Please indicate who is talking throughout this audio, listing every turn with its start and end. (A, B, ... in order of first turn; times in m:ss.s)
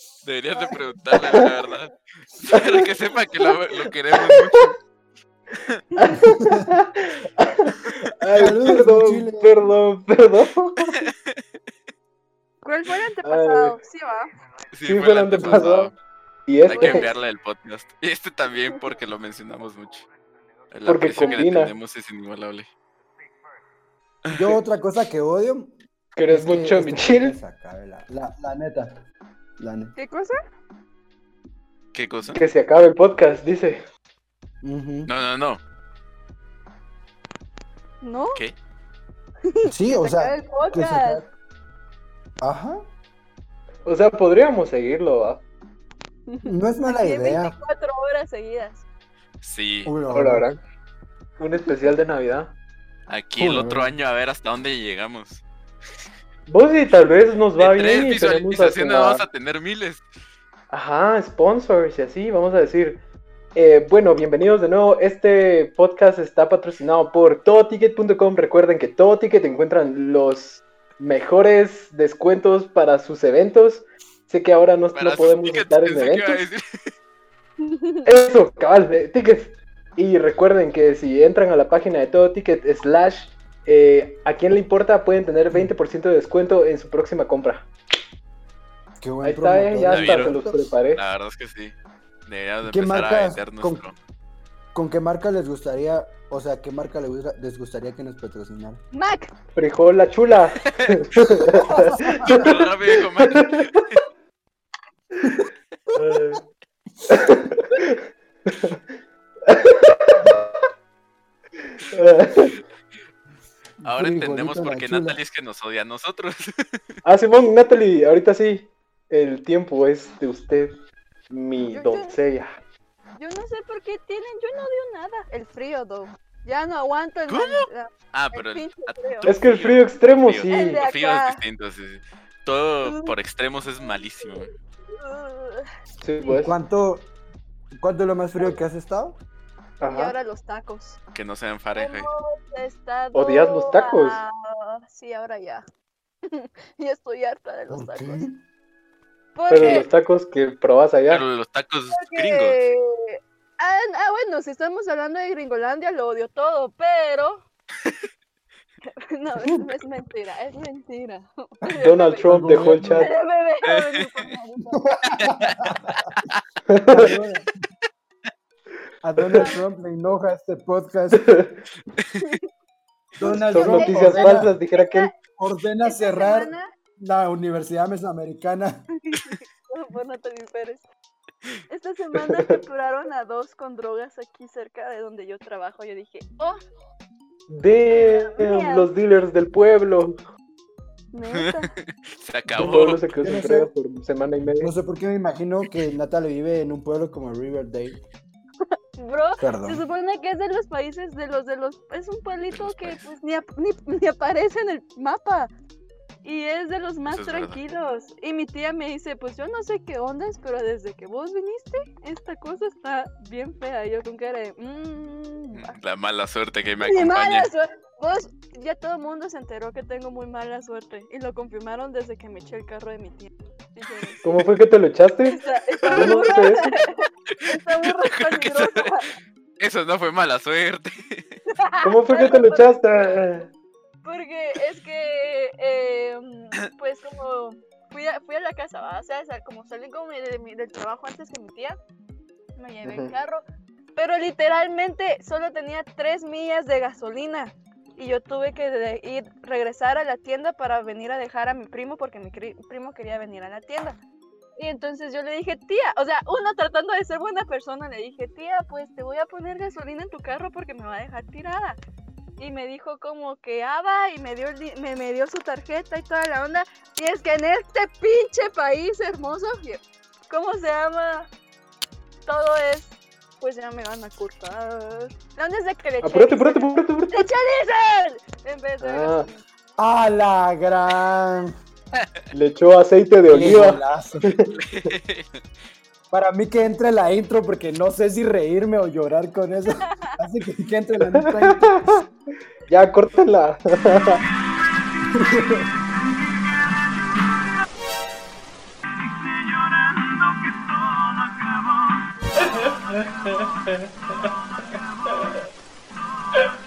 0:00.2-0:04.8 A
0:01.2-0:01.5 B
0:02.5-0:02.9 B
0:04.2-0:04.6 B
0:06.0-0:11.0 B
0:08.3-0:09.7 C
0:11.1-0:11.4 A
0:12.6-0:14.3 D
0:13.2-0:13.8 B
0:14.7-0:15.9 A
0:14.9-0:15.9 B
0:16.5-0:17.1 B
0:16.6-0:20.1 A
0:16.7-0:17.2 D
0:20.7-0:22.7 A
0:20.8-0:21.7 B
0:24.3-0:24.5 A
0:24.3-0:29.0 C
0:26.2-0:27.4 B
0:29.6-0:29.9 C
0:30.0-0:30.4 D
0:31.9-0:32.4 A
0:32.3-0:33.8 B
0:34.6-0:35.1 C
0:35.1-0:35.6 A
0:38.0-0:38.4 D
0:39.5-0:41.2 D
0:39.7-0:41.3 C
0:42.4-0:42.8 C
0:43.8-0:45.4 B
0:46.3-0:48.8 D
0:46.4-0:47.6 C
0:49.4-0:49.9 A
0:49.8-0:50.5 C
0:50.1-0:50.6 B
0:51.4-0:52.5 B
0:53.1-0:55.4 A
0:53.4-0:53.9 C
0:56.5-0:59.2 B
0:57.6-1:00.0 A
1:00.7-1:03.0 B
1:03.5-1:16.4 B
1:14.9-1:16.9 A
1:17.6-1:18.0 D
1:18.0-1:27.7 B
1:29.0-1:30.7 C
1:29.2-1:31.0 B
1:29.8-1:30.4 A
1:30.9-1:31.7 A
1:32.2-1:34.0 A
1:32.6-1:33.8 C
1:34.7-1:38.8 C
1:38.9-1:39.3 D
1:39.5-1:43.6 B
1:41.5-1:42.5 C
1:42.2-1:44.0 A
1:46.0-1:46.4 B
1:47.1-1:48.8 B
1:49.4-1:50.5 B
1:51.8-1:52.6 B
1:53.8-1:55.2 C
1:53.8-1:56.8 A
1:57.0-2:00.8 B
2:01.3-2:02.6 B
2:01.7-2:02.2 D
2:03.2-2:09.3 D
2:07.3-2:14.5 A
2:09.2-2:10.8 B
2:10.5-2:11.4 D
2:12.8-2:13.1 D
2:13.8-2:15.7 D
2:16.0-2:16.5 B
2:16.2-2:17.1 C
2:17.8-2:19.2 C
2:19.8-2:20.2 B
2:19.9-2:21.0 D
2:21.1-2:22.1 A
2:21.8-2:25.6 D
2:23.1-2:24.2 B
2:26.3-2:28.2 D
2:27.7-2:28.4 C
2:29.4-2:29.9 D
2:29.5-2:31.2 B
2:29.6-2:29.8 A
2:31.1-2:32.6 A
2:31.9-2:37.4 D
2:39.0-2:44.8 D
2:41.7-2:43.1 B
2:42.2-2:43.1 C
2:43.7-2:44.0 A
2:44.8-2:46.0 C
2:45.2-2:46.2 A
2:46.7-2:47.1 B
2:46.9-2:47.5 C
2:49.0-2:51.3 C
2:49.4-2:49.6 D
2:51.1-2:51.6 B
2:53.2-2:54.6 C
2:53.2-2:55.1 D
2:53.4-2:55.1 B
2:55.4-2:58.8 C
2:55.8-2:56.7 D
2:59.0-3:00.8 D
3:01.7-3:06.6 D
3:07.5-3:10.2 B
3:07.9-3:08.9 D
3:11.1-3:11.7 D
3:11.3-3:13.0 A
3:12.5-3:14.7 B
3:13.2-3:13.7 C
3:14.6-3:18.0 C
3:19.0-3:25.5 D
3:19.4-3:19.8 C
3:22.5-3:23.0 A
3:26.2-3:35.8 D
3:27.1-3:27.6 A
3:35.5-3:37.5 A
3:36.8-3:44.2 D
3:44.2-3:46.8 B
3:45.2-3:49.1 D
3:47.4-3:48.9 A
3:49.6-3:51.4 A
3:51.5-3:52.8 D
3:51.8-3:53.5 B
3:54.0-4:01.8 D
4:02.6-4:03.4 D
4:02.8-4:03.1 B
4:04.0-4:14.0 D
4:14.6-4:21.8 D
4:22.4-4:31.3 D
4:32.2-4:39.4 D
4:36.0-4:37.3 B
4:38.8-4:39.3 B
4:39.8-4:41.5 C
4:41.9-4:42.2 A
4:42.3-4:44.9 B
4:43.3-4:44.3 C
4:44.6-4:45.4 A
4:46.1-4:52.0 C
4:49.9-4:50.1 D
4:51.1-4:52.0 B
4:52.7-4:54.2 B
4:55.2-4:55.6 C